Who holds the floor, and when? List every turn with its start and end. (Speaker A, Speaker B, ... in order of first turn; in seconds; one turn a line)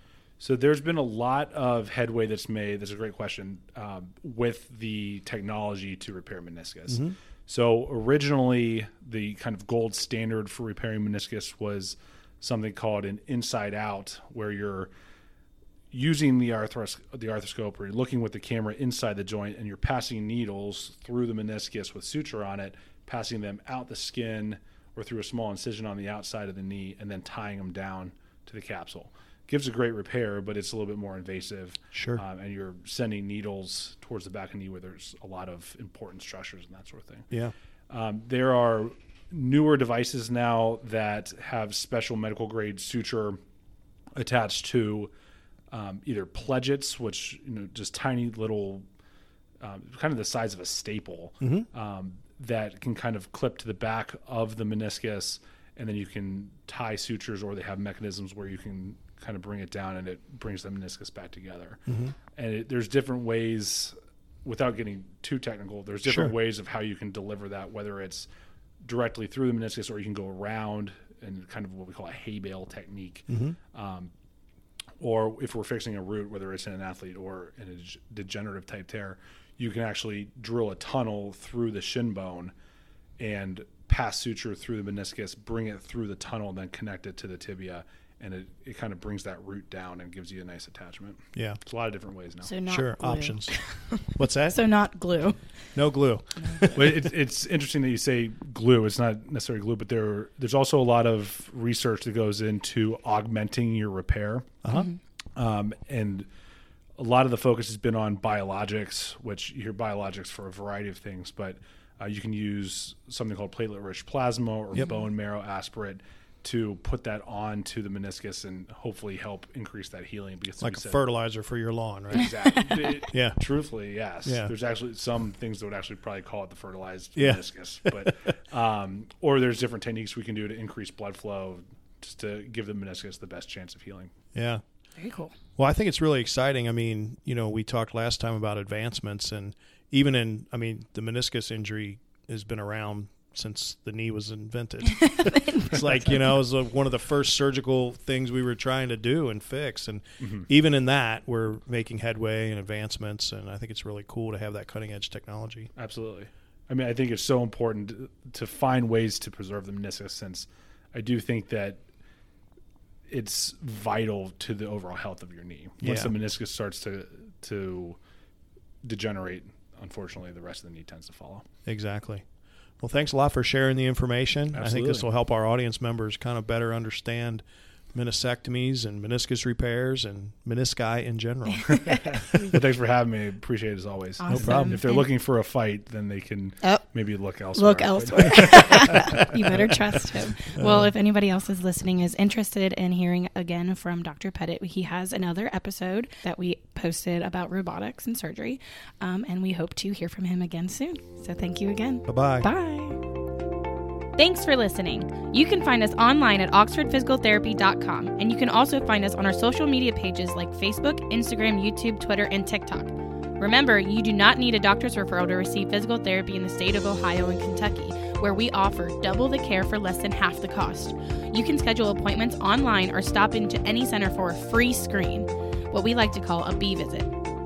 Speaker A: 0.4-14.9
Speaker B: 6.9-7.2
Speaker A: 15.9-37.3
Speaker B: 31.9-32.2
Speaker A: 37.9-43.4
Speaker A: 44.1-45.1
Speaker A: 45.7-48.9
Speaker A: 49.6-68.3
Speaker B: 51.4-51.7
Speaker B: 61.9-62.1
Speaker B: 66.0-66.3
Speaker A: 68.8-74.1
Speaker B: 73.3-73.6
Speaker A: 75.0-82.5
Speaker A: 83.2-92.5
Speaker B: 91.3-91.6
Speaker C: 92.4-95.4
Speaker B: 92.7-94.6
Speaker B: 95.7-97.0
Speaker A: 96.7-104.5
Speaker B: 104.6-104.9
Speaker C: 104.7-105.0
Speaker A: 105.3-106.3
Speaker A: 107.0-121.0
Speaker B: 120.6-123.4
Speaker A: 122.1-134.1
Speaker B: 124.2-124.5
Speaker B: 127.2-128.0
Speaker B: 134.3-134.6
Speaker C: 135.0-135.3
Speaker B: 135.6-155.7
Speaker C: 145.2-145.7
Speaker A: 150.2-150.5
Speaker A: 155.8-161.8
Speaker A: 163.1-168.0
Speaker B: 165.8-166.1
Speaker A: 168.8-171.4
Speaker B: 171.7-172.2
Speaker B: 172.8-182.0
Speaker A: 174.5-175.1
Speaker A: 181.7-189.6
Speaker C: 184.2-185.1
Speaker B: 184.3-184.8
Speaker C: 187.5-203.0
Speaker B: 190.6-190.9
Speaker B: 202.1-202.5
Speaker C: 204.1-227.1